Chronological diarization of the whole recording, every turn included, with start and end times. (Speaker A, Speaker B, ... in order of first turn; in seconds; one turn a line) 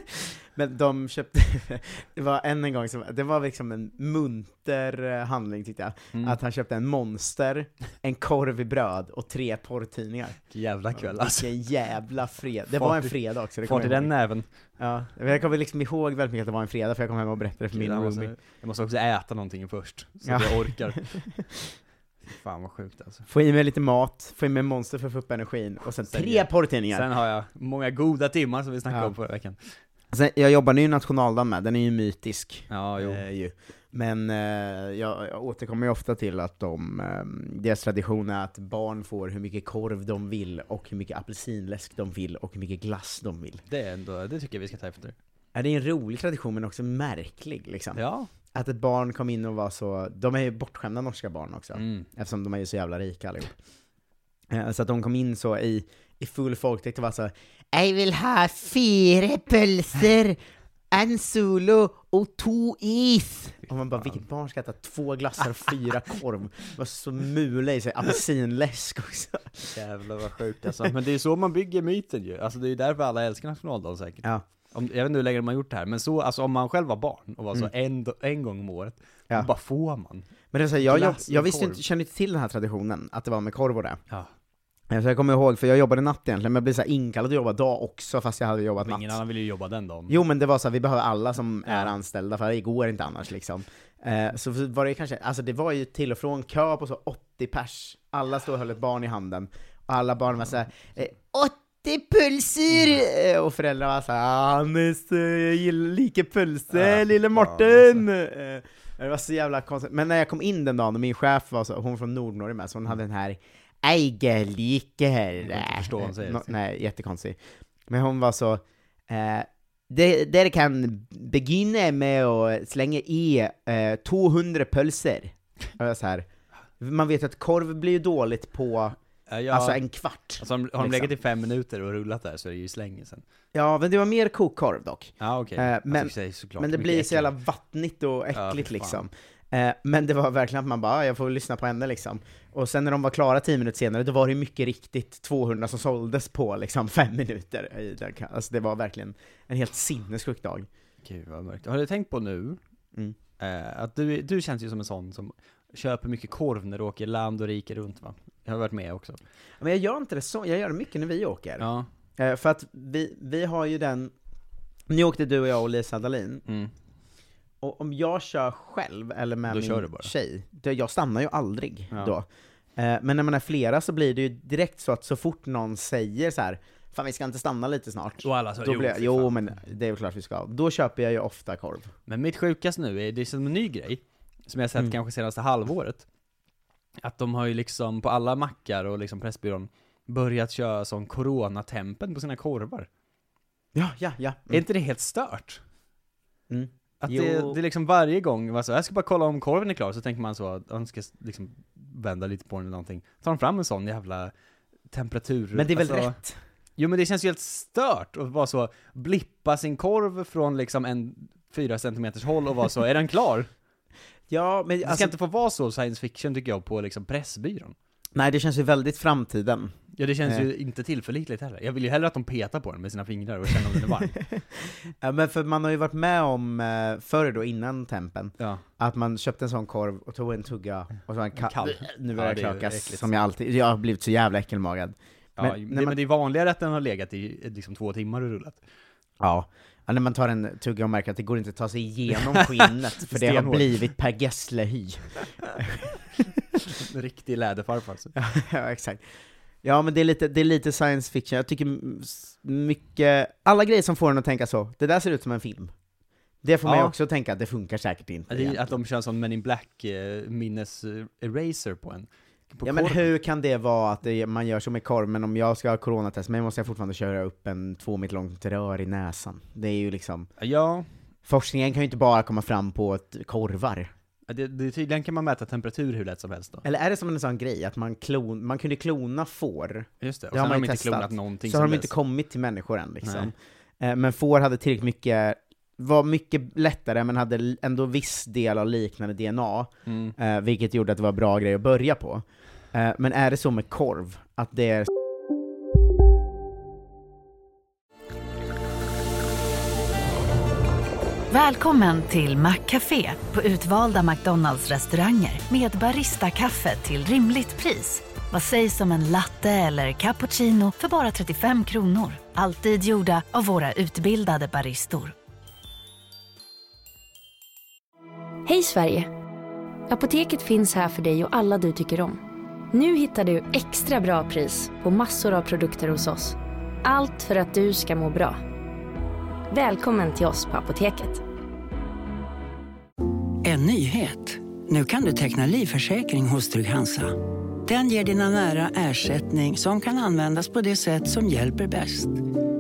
Speaker A: 0.5-10.4
Speaker B: 6.1-6.4
Speaker B: 10.5-11.5
Speaker A: 10.9-14.1
Speaker B: 12.7-14.5
Speaker A: 14.8-18.3
Speaker B: 17.7-21.5
Speaker A: 20.2-21.4
Speaker B: 22.3-23.3
Speaker A: 23.3-27.1
Speaker B: 26.1-29.8
Speaker A: 28.9-29.1
Speaker A: 30.1-43.6
Speaker B: 32.7-33.2
Speaker B: 43.7-45.1
Speaker A: 45.5-48.0
Speaker B: 47.9-48.3
Speaker A: 48.5-53.5
Speaker B: 51.7-52.1
Speaker A: 54.5-60.4
Speaker A: 60.9-69.8
Speaker B: 69.7-80.3
Speaker A: 80.5-84.0
Speaker B: 80.8-81.8
Speaker A: 84.9-89.2
Speaker B: 88.8-90.2
Speaker A: 90.1-117.4
Speaker B: 91.7-91.9
Speaker B: 106.7-108.0
Speaker B: 115.4-116.5
Speaker A: 117.9-126.2
Speaker A: 126.8-128.9
Speaker B: 129.3-129.8
Speaker A: 129.5-131.1
Speaker B: 130.4-133.2
Speaker A: 133.5-150.7
Speaker B: 135.2-137.3
Speaker B: 138.3-139.0
Speaker B: 151.0-152.6
Speaker B: 153.4-159.2
Speaker A: 159.6-161.7
Speaker B: 161.6-161.9
Speaker A: 162.2-164.1
Speaker A: 164.9-166.4
Speaker B: 166.4-166.7
Speaker A: 167.6-172.2
Speaker B: 169.5-170.1
Speaker A: 172.8-181.9
Speaker B: 178.2-179.3
Speaker B: 182.1-186.1
Speaker B: 187.0-192.9
Speaker A: 193.7-194.6
Speaker B: 194.5-195.6
Speaker A: 196.5-197.6
Speaker B: 197.0-204.3
Speaker B: 204.9-206.2
Speaker A: 205.5-206.4
Speaker B: 206.8-213.5
Speaker A: 214.3-215.1
Speaker B: 214.8-217.7
Speaker A: 218.1-219.7
Speaker B: 219.9-224.3
Speaker A: 224.2-236.0
Speaker B: 228.4-228.6
Speaker B: 231.3-233.2
Speaker B: 235.4-238.6
Speaker A: 239.2-245.2
Speaker B: 242.3-243.8
Speaker B: 246.7-248.1
Speaker A: 248.1-249.0
Speaker A: 249.6-255.7
Speaker A: 256.4-258.8
Speaker B: 256.6-256.9
Speaker B: 258.3-263.1
Speaker A: 262.6-270.3
Speaker B: 270.4-270.9
Speaker A: 271.2-273.9
Speaker B: 274.2-276.6
Speaker A: 276.6-294.9
Speaker B: 280.0-281.9
Speaker B: 283.0-283.3
Speaker B: 289.9-290.1
Speaker C: 301.3-315.1
Speaker D: 318.5-319.1
Speaker D: 319.9-322.1
Speaker D: 322.7-326.3
Speaker D: 326.9-328.4
Speaker D: 329.5-331.2
Speaker E: 333.4-342.2